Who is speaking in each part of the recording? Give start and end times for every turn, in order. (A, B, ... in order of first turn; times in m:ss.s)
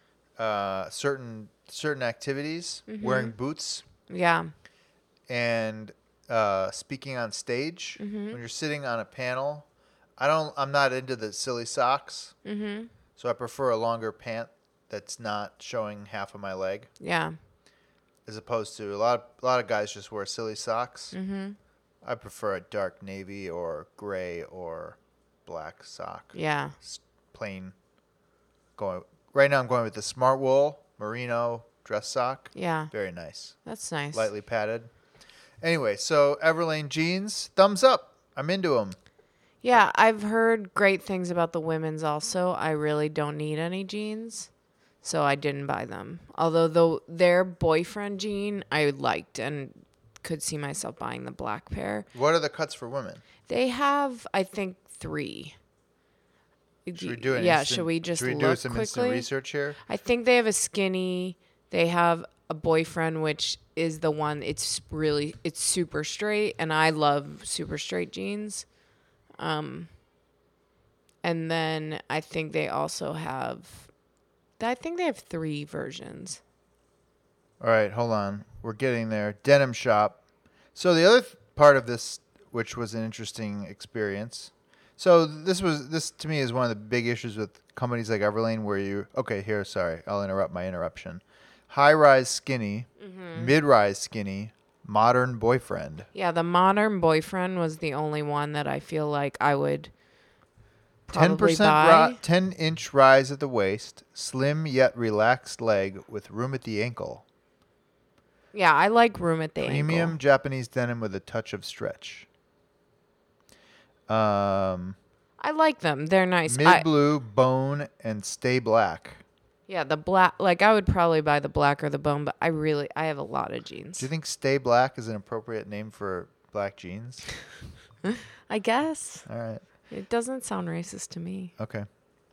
0:00.4-0:03.8 A
0:02.9-0:03.3 B
0:04.1-0:04.5 B
0:05.3-0:09.7 A
0:08.0-0:08.4 B
0:10.2-0:12.3 A
0:12.4-0:12.9 B
0:13.2-0:16.9 A
0:17.0-0:17.4 B
0:18.2-0:21.1 A
0:21.1-0:21.6 B
0:22.0-0:27.7 A
0:26.3-0:26.8 B
0:28.8-0:33.6 A
0:32.5-0:32.9 B
0:33.6-0:34.2 B
0:34.1-0:34.9 A
0:35.6-0:39.0 A
0:39.6-0:44.5 B
0:45.0-0:52.1 B
0:52.1-0:53.2 A
0:53.4-0:55.6 B
0:56.8-0:59.3 B
0:56.9-0:59.8 A
0:59.8-1:08.6 B
1:09.4-1:09.9 B
1:11.2-1:13.9 B
1:14.6-1:16.4 B
1:17.6-1:20.2 A
1:20.7-1:36.1 A
1:33.0-1:33.6 B
1:36.1-1:39.9 B
1:41.1-1:42.2 B
1:41.1-1:47.2 A
1:48.5-1:50.2 B
1:49.6-1:52.3 A
1:54.1-1:55.0 A
1:55.4-1:56.8 B
1:56.5-1:59.2 A
1:59.7-2:04.1 B
2:04.0-2:07.3 A
2:08.0-2:09.2 B
2:09.2-2:09.6 A
2:09.9-2:11.5 B
2:11.6-2:11.9 A